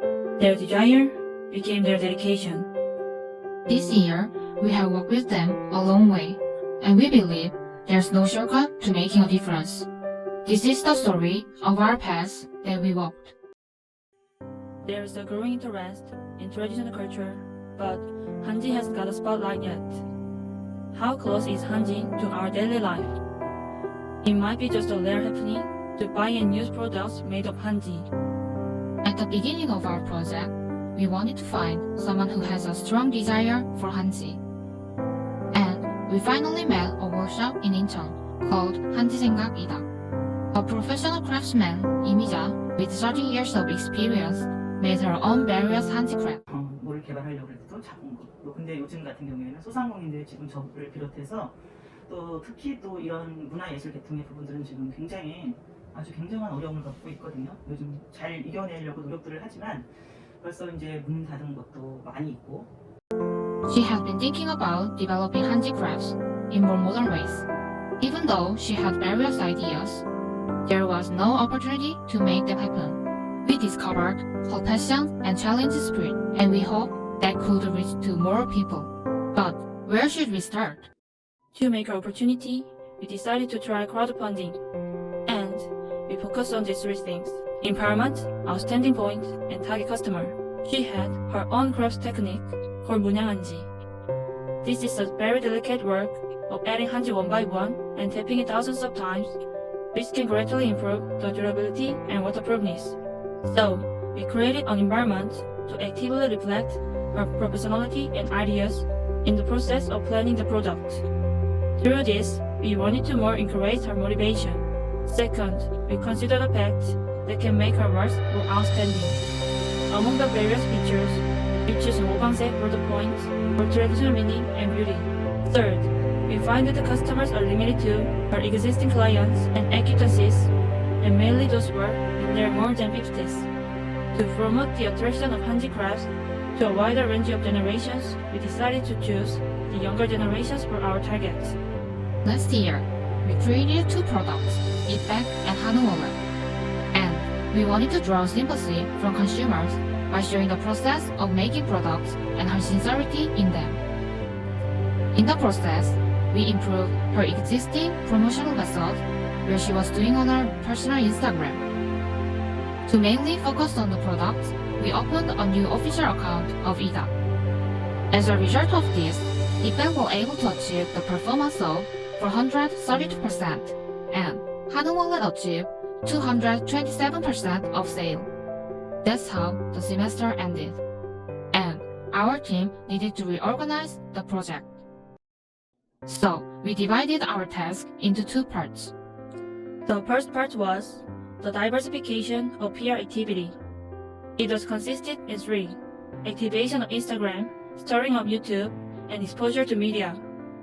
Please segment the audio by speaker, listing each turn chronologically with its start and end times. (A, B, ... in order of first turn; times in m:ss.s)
0:00.4-0:02.7 A
0:03.7-0:09.9 B
0:10.4-0:13.4 B
0:14.8-0:20.0 A
0:20.9-0:23.1 A
0:24.2-0:28.1 A
0:29.0-0:34.4 B
0:35.5-0:39.9 B
0:40.5-0:46.4 B
0:46.5-0:51.6 C
0:52.1-0:59.9 C
1:00.4-1:02.7 C
1:03.7-1:07.4 B
1:08.0-1:10.0 B
1:10.7-1:20.9 B
1:21.5-1:24.6 A
1:25.3-1:33.7 A
1:34.6-1:39.4 A
1:39.9-1:51.0 A
1:51.8-1:59.2 A
1:59.9-2:13.5 A
2:14.1-2:21.6 A
2:22.2-2:26.2 B
2:26.9-2:33.8 B
2:35.1-2:41.6 B
2:42.9-2:47.1 B
2:48.1-2:58.3 B
2:59.0-3:00.8 B
3:01.5-3:04.7 B
3:06.1-3:08.9 B
3:09.8-3:13.6 A
3:14.4-3:20.2 A